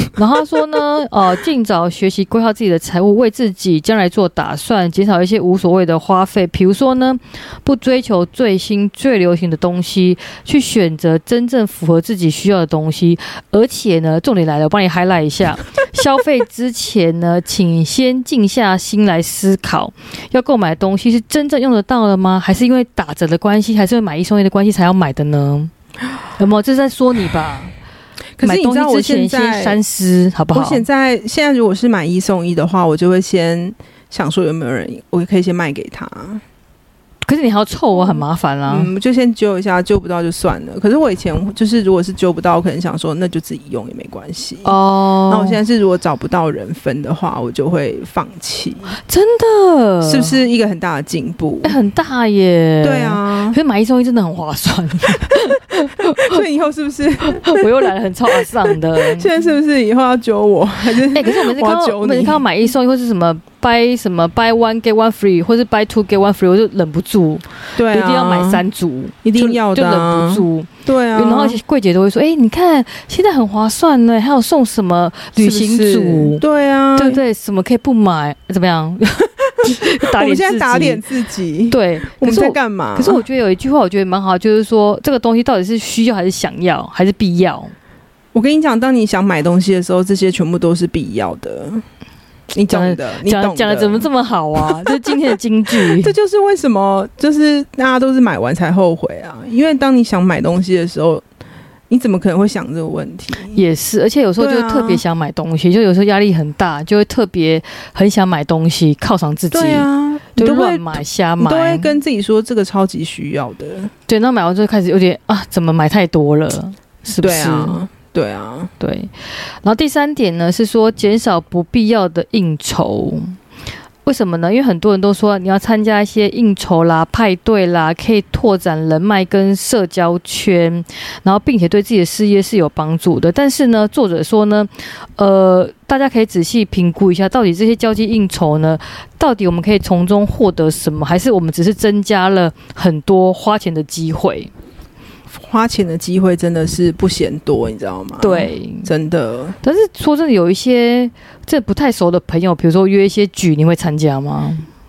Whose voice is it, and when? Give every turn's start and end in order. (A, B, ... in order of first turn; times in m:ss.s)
0:00.1-0:25.7 A
0:26.4-0:27.7 A
0:28.4-0:29.8 B
0:28.4-0:30.8 A
0:30.5-0:36.4 B
0:37.2-0:38.9 A
0:37.9-0:44.8 B
0:44.6-0:45.6 A
0:45.3-0:49.0 B
0:49.1-0:50.4 A
0:50.0-0:51.8 B
0:51.6-0:56.4 A
0:52.8-0:53.6 B
0:56.2-1:02.4 B
0:57.2-0:59.3 A
1:01.0-1:16.4 A
1:07.8-1:08.6 B
1:09.2-1:11.6 B
1:15.4-1:17.2 B
1:17.0-1:21.0 A
1:19.6-1:23.2 B
1:21.7-1:27.7 A
1:28.3-1:31.8 B
1:32.5-1:34.1 B
1:32.7-1:36.1 A
1:35.7-1:41.2 B
1:41.9-1:43.6 B
1:43.5-1:51.9 A
1:44.4-1:45.0 B
1:49.5-1:53.9 B
1:54.1-1:57.8 A
1:57.2-1:58.7 B
1:58.8-2:03.4 A
2:04.0-2:24.5 A
2:25.3-2:29.6 B
2:28.2-2:28.9 A
2:29.6-2:34.6 A